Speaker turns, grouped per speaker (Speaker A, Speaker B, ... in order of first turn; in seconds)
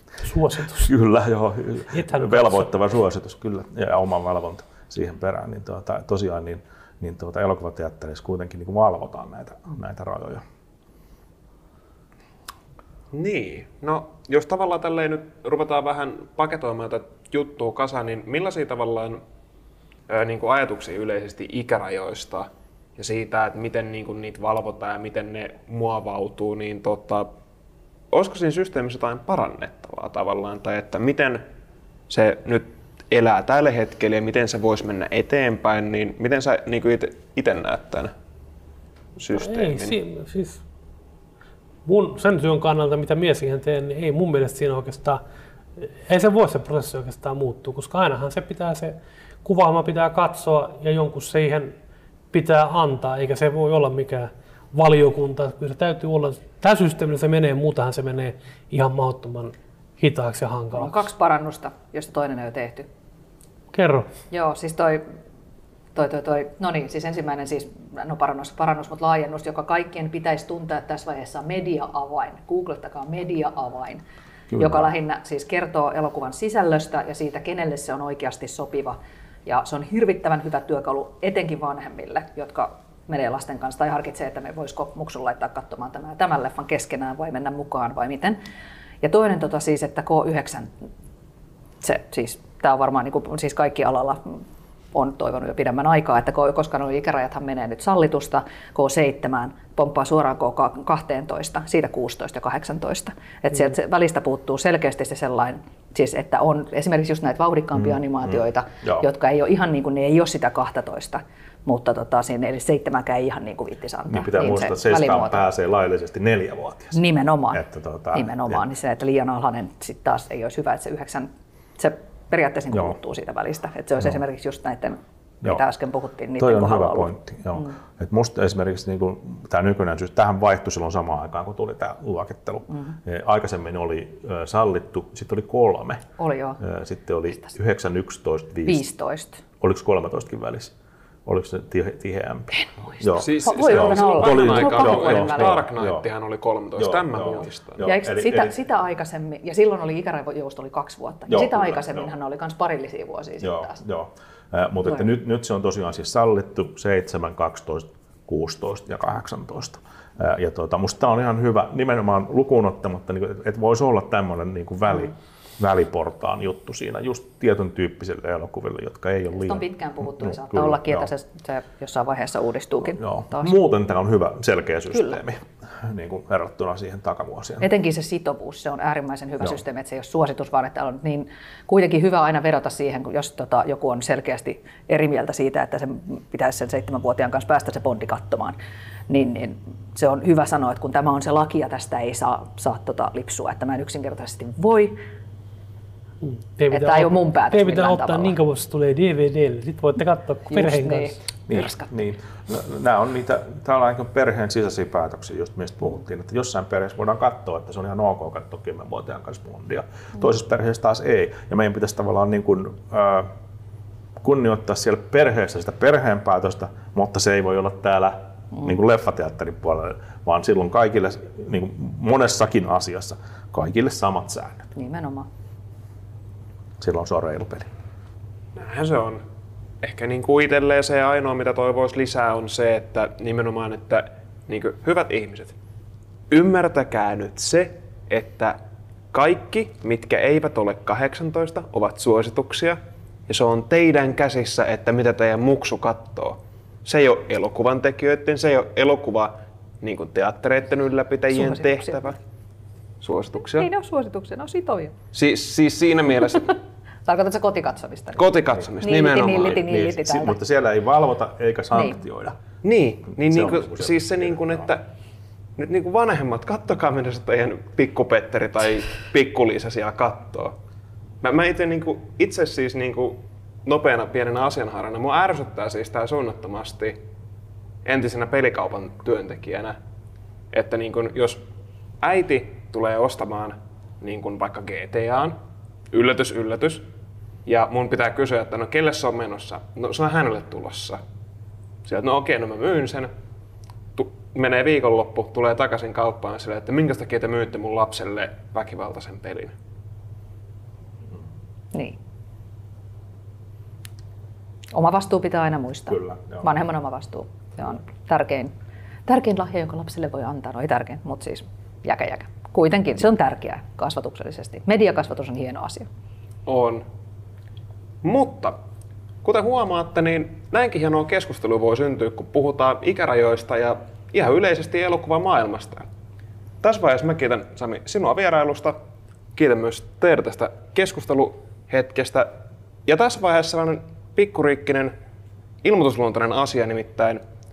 Speaker A: 0.2-0.9, 1.9-2.7, 39.3-40.6, 41.9-45.2, 45.8-51.8, 52.3-61.1, 63.7-64.1, 196.2-201.2
Speaker B: 0.8-10.4, 74.5-74.9, 107.8-109.1, 114.1-117.0, 117.5-118.6, 126.4-136.1, 136.6-138.8, 139.6-140.7, 141.3-146.1, 146.8-148.6, 151.3-152.1, 153.4-171.1, 172.8-177.7, 201.5-213.3, 214.2-224.7, 226.8-227.7, 259.5-262.4, 263.1-264.7, 305.9-306.5
Speaker C: 13.1-19.2, 20.1-27.3, 28.1-31.4, 32.1-38.1, 39.2-40.0, 143.1-147.8, 228.6-229.2, 229.8-235.6, 236.3-238.6, 239.1-252.2, 253.0-253.7, 255.1-256.6, 258.2-259.7, 262.6-264.9, 265.6-270.6, 271.2-277.0, 277.8-279.8, 280.5-281.4, 282.0-285.4, 285.9-286.9, 287.5-291.0, 291.8-293.1, 293.9-299.6, 316.5-316.9, 318.0-318.6, 319.2-325.9, 326.6-328.8, 329.4-334.9, 335.6-337.2
Speaker D: 60.7-62.9, 64.3-65.1, 66.0-74.0, 74.5-88.4, 89.0-90.8, 91.8-94.4, 94.9-115.5, 116.9-127.8, 132.7-133.0, 136.2-136.6, 138.7-139.4, 142.5-145.6, 147.8-153.8, 169.3-173.6, 177.6-188.6, 189.1-195.0, 196.7-198.4, 200.5-202.1, 224.8-225.3, 251.3-252.2, 253.4-255.0, 256.5-258.3, 258.8-260.4, 304.7-308.5, 309.1-315.9